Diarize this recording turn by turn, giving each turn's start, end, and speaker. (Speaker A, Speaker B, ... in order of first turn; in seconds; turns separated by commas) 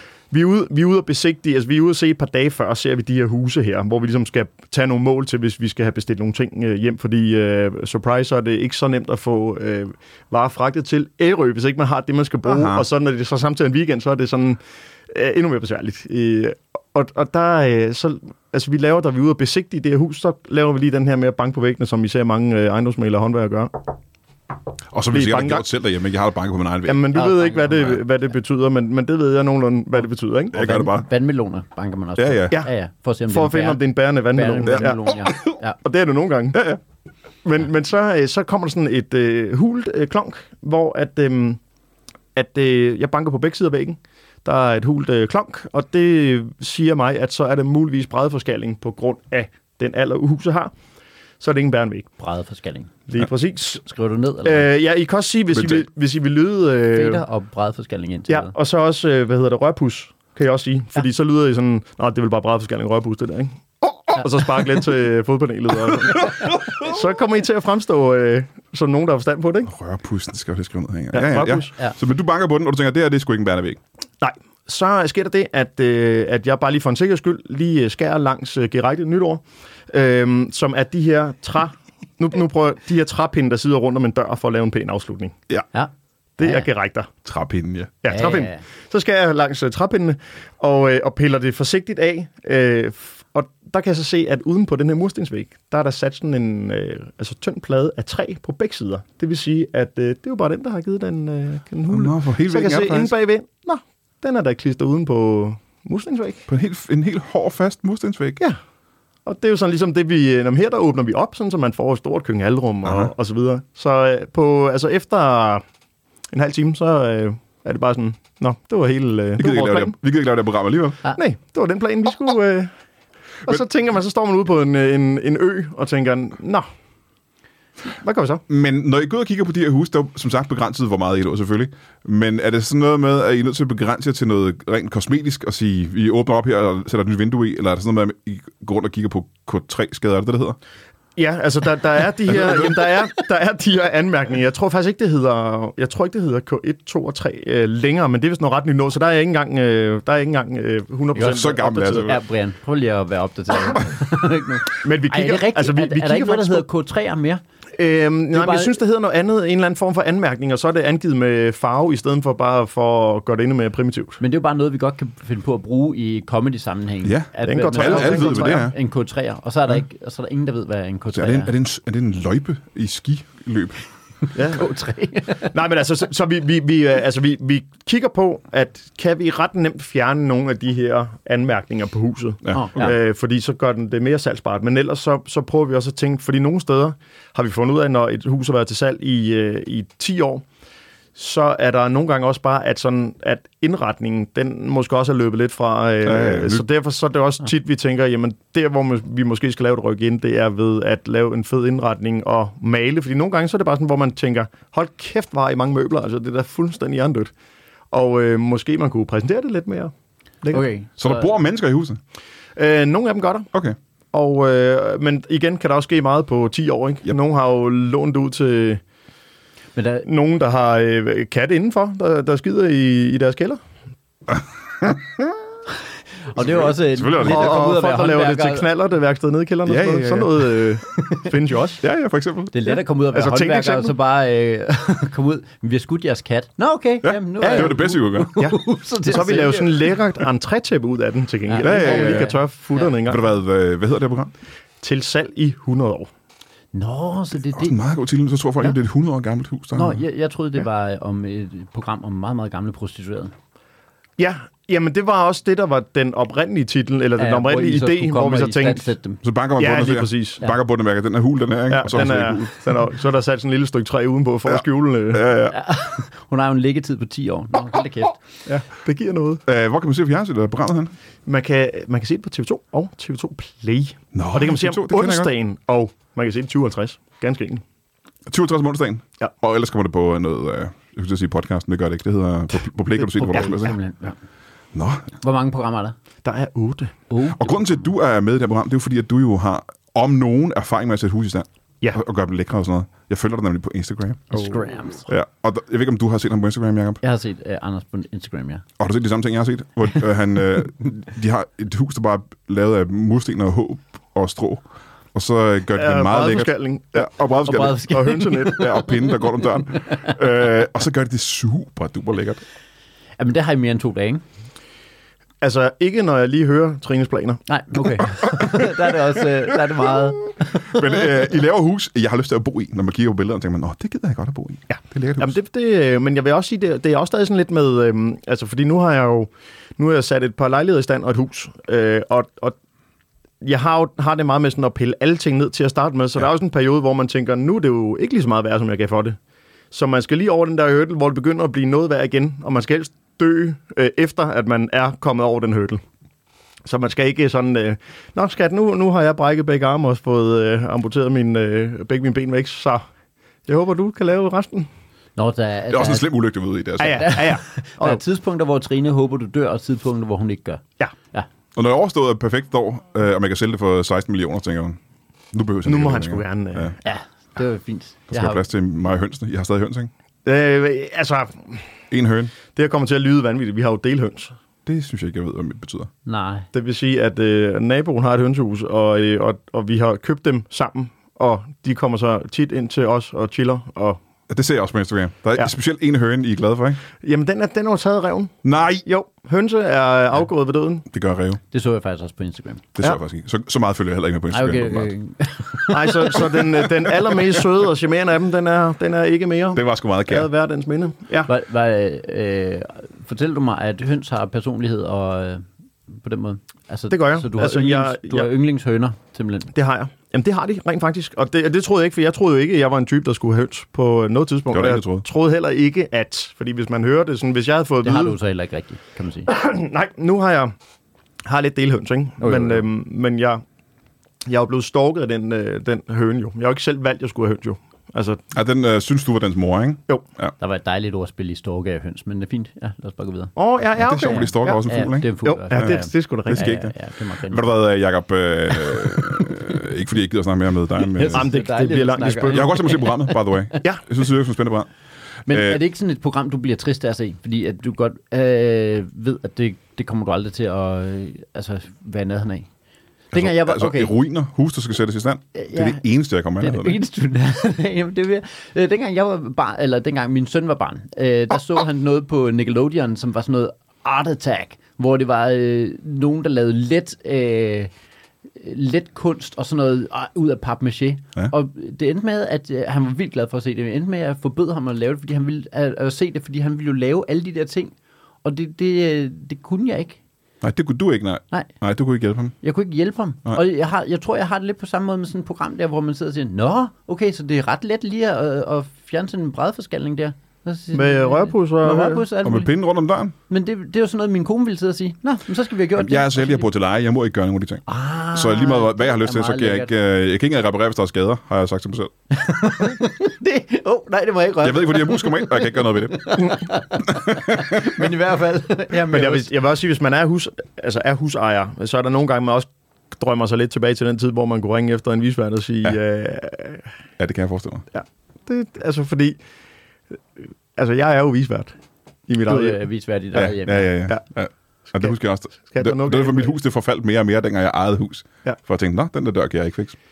Speaker A: 0.3-23.8, Speaker B: 12.4-12.8, Speaker B: 24.9-27.1, Speaker A: 25.1-25.6, Speaker A: 26.9-30.8, Speaker C: 27.1-28.0, Speaker B: 30.5-31.1, Speaker C: 30.6-35.8, Speaker B: 32.2-32.6, Speaker A: 33.3-36.6, Speaker B: 34.7-35.2, Speaker B: 36.5-36.8, Speaker A: 37.4-41.6, Speaker A: 42.3-50.7, Speaker A: 51.4-52.1, Speaker C: 52.2-53.0, Speaker A: 53.1-53.8, Speaker C: 53.8-54.7, Speaker A: 54.4-57.2, Speaker B: 55.5-55.8, Speaker C: 56.9-58.5, Speaker A: 58.3-69.7, Speaker B: 69.7-73.8, Speaker A: 71.1-71.7, Speaker A: 74.2-85.4, Speaker C: 85.7-86.7, Speaker A: 86.4-87.1, Speaker B: 87.2-87.9, Speaker A: 88.0-106.5, Speaker C: 88.1-88.6, Speaker B: 101.9-103.1, Speaker B: 106.5-108.4, Speaker A: 109.2-115.6, Speaker B: 112.8-113.1, Speaker A: 116.3-120.0, Speaker B: 119.4-121.0, Speaker A: 121.1-122.7, Speaker A: 123.4-126.7, Speaker A: 127.9-128.4, Speaker B: 128.5-140.6, Speaker A: 141.2-152.1, Speaker B: 142.3-142.7, Speaker B: 151.1-152.2, Speaker C: 151.2-157.4, Speaker A: 154.8-156.6, Speaker A: 157.8-164.2, Speaker C: 158.3-158.8, Speaker C: 164.2-171.5, Speaker B: 167.0-168.7, Speaker A: 167.4-168.6, Speaker B: 171.1-173.8, Speaker A: 174.3-174.7, Speaker C: 174.5-175.5, Speaker A: 175.4-190.4, Speaker B: 182.4-182.9, Speaker C: 182.5-182.9, Speaker A: 191.1-207.3, Speaker B: 196.0-196.6, Speaker A: 207.9-210.7, Speaker C: 210.5-211.3, Speaker B: 211.0-212.0, Speaker A: 212.6-213.5, Speaker A: 214.1-218.8, Speaker C: 219.8-220.1, Speaker A: 220.0-223.6, Speaker B: 224.8-225.2, Speaker C: 226.3-228.7, Speaker B: 226.4-227.7, Speaker A: 227.2-231.8, Speaker B: 229.7-230.6, Speaker B: 231.8-232.5, Speaker C: 232.5-239.9, Speaker A: 233.1-233.9, Speaker B: 237.0-238.4, Speaker A: 237.4-237.8, Speaker A: 238.3-243.2, Speaker C: 241.5-242.9, Speaker B: 241.6-242.3, Speaker B: 243.1-244.3, Speaker A: 244.8-246.1, Speaker C: 246.7-247.8, Speaker B: 247.5-250.0, Speaker C: 249.7-253.3, Speaker A: 254.2-258.9, Speaker C: 257.2-259.2, Speaker B: 259.2-262.6, Speaker A: 259.6-260.4, Speaker A: 261.7-265.3, Speaker B: 265.1-265.5, Speaker C: 265.5-268.2, Speaker A: 268.4-269.4, Speaker B: 269.4-270.9, Speaker A: 271.2-277.6, Speaker B: 274.1-275.3, Speaker B: 278.3-283.8, Speaker C: 283.0-284.1, Speaker B: 284.7-285.1, Speaker C: 285.2-285.9, Speaker A: 286.2-286.9, Speaker C: 287.1-287.9, Speaker B: 287.3-294.5, Speaker C: 294.3-295.1, Speaker B: 295.1-297.0, Speaker C: 297.0-298.6, Speaker B: 298.8-307.8, Speaker A: 305.8-308.8, Speaker C: 307.4-309.8, Speaker B: 308.5-312.4, Speaker C: 313.2-314.2, Speaker A: 315.4-317.4, Speaker C: 317.5-320.8, Speaker B: 320.6-325.3, Speaker A: 324.7-332.6, Speaker A: 333.4-339.2, Speaker A: 339.7-345.8, Speaker A: 346.6-352.9, Speaker A: 353.4-354.7, Speaker C: 355.1-356.1, Speaker B: 355.7-357.2, Speaker A: 356.8-358.0, Speaker C: 357.0-361.3, Speaker B: 361.5-364.8, Speaker B: 365.3-366.8, Speaker A: 365.6-366.7, Speaker C: 366.8-368.4, Speaker B: 368.1-369.9, Speaker A: 370.2-371.6, Speaker B: 371.9-372.3, Speaker A: 372.5-374.3, Speaker B: 374.6-375.9, Speaker C: 376.1-376.5, Speaker A: 376.5-384.0, Speaker B: 384.3-386.8, Speaker A: 387.0-390.9, Speaker B: 388.4-388.8, Speaker B: 390.9-391.4, Speaker C: 391.5-392.7, Speaker B: 392.8-394.9, Speaker C: 394.3-396.6, Speaker A: 395.7-401.3, Speaker B: 399.5-400.3, Speaker C: 401.3-409.5, Speaker A: 406.9-408.3, Speaker A: 409.5-418.2, Speaker B: 414.5-415.0, Speaker C: 417.8-419.3, Speaker A: 419.3-420.5, Speaker A: 421.2-423.4, Speaker C: 422.2-422.6, Speaker A: 424.2-428.2, Speaker B: 428.3-430.3, Speaker C: 430.4-433.3, Speaker A: 433.4-434.6, Speaker B: 433.8-436.7, Speaker C: 434.0-437.5, Speaker A: 435.2-436.6, Speaker B: 437.3-441.3, Speaker C: 438.6-439.3, Speaker C: 440.9-443.5, Speaker A: 441.1-442.5, Speaker B: 442.3-444.7, Speaker C: 445.3-452.5, Speaker B: 445.3-445.6, Speaker C: 453.1-453.9, Speaker B: 453.1-456.8, Speaker C: 455.3-455.8, Speaker C: 456.4-467.7, Speaker C: 468.3-477.7, Speaker C: 478.2-480.0, Speaker B: 480.4-482.3, Speaker C: 482.4-492.5, Speaker A: 490.7-492.0, Speaker B: 492.2-493.1, Speaker C: 493.3-496.5, Speaker B: 495.8-501.9, Speaker C: 497.7-499.7, Speaker C: 502.1-509.3, Speaker B: 504.4-507.8, Speaker A: 508.8-516.7, Speaker B: 517.0-517.7, Speaker A: 517.7-519.2, Speaker A: 520.2-521.5, Speaker A: 522.1-522.6, Speaker C: 522.2-523.7, Speaker B: 523.1-529.8, Speaker A: 524.7-526.3